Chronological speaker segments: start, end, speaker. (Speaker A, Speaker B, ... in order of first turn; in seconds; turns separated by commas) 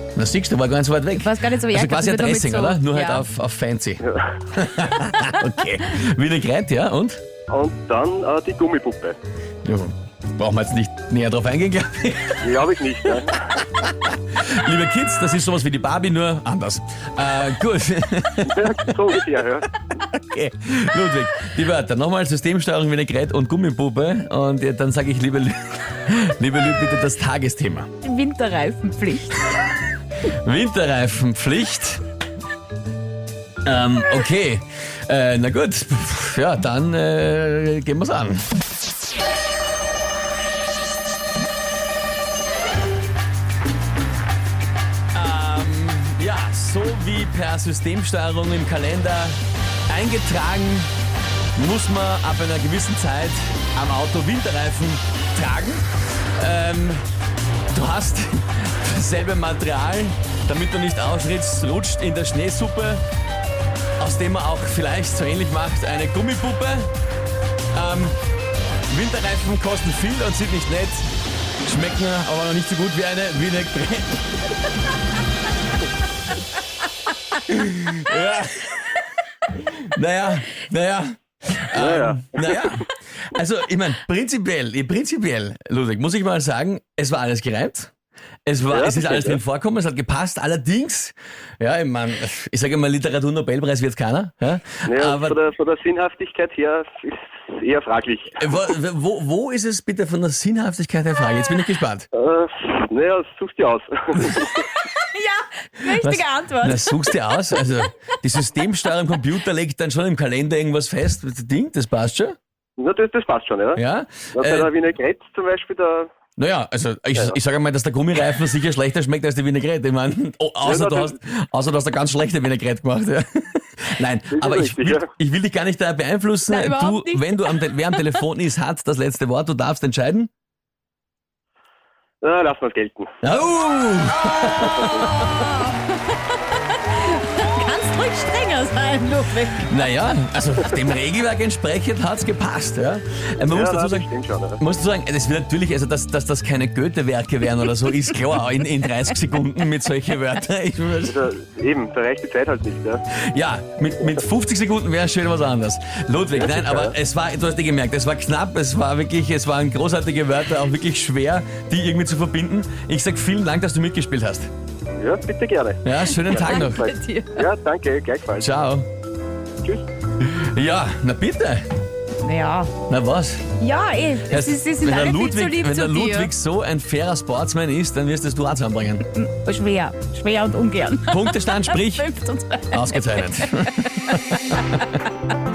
Speaker A: 0.1-7.2, Speaker B: 1.1-3.2, Speaker C: 7.5-9.2, Speaker A: 9.6-13.2, Speaker C: 12.4-13.5, Speaker A: 13.8-19.1, Speaker C: 18.4-19.7, Speaker A: 20.0-27.9, Speaker B: 28.0-29.5, Speaker A: 30.2-32.0, Speaker A: 33.6-38.5, Speaker A: 45.1-49.4, Speaker A: 49.9-50.9, Speaker A: 51.5-55.9, Speaker A: 56.4-57.0, Speaker A: 57.7-63.0, Speaker A: 64.0-66.9, Speaker A: 67.7-68.2, Speaker A: 68.9-71.0, Speaker A: 71.6-74.4, Speaker A: 77.4-87.9, Speaker C: 81.7-82.8, Speaker A: 88.5-95.4, Speaker C: 88.7-89.4, Speaker C: 94.8-98.5, Speaker A: 98.4-102.1, Speaker C: 102.1-104.6, Speaker B: 104.6-107.2, Speaker A: 105.9-112.3, Speaker C: 112.8-113.8, Speaker A: 113.8-114.7, Speaker C: 114.3-116.1, Speaker A: 116.4-130.3, Speaker C: 120.6-121.1, Speaker C: 124.3-125.1, Speaker B: 126.5-128.0, Speaker C: 132.2-133.1, Speaker A: 133.2-135.4, Speaker C: 134.6-135.1, Speaker B: 135.3-139.8, Speaker A: 139.6-151.2, Speaker C: 143.5-144.6, Speaker C: 151.0-153.0, Speaker A: 153.1-164.5, Speaker C: 156.3-156.9, Speaker C: 164.9-168.5, Speaker A: 165.8-166.9, Speaker B: 166.2-167.4, Speaker A: 168.4-168.9, Speaker A: 170.2-171.6, Speaker B: 172.2-172.7, Speaker A: 172.9-173.4, Speaker B: 173.6-176.3, Speaker A: 174.3-179.0, Speaker B: 179.1-184.8, Speaker A: 181.1-182.1, Speaker A: 182.7-184.8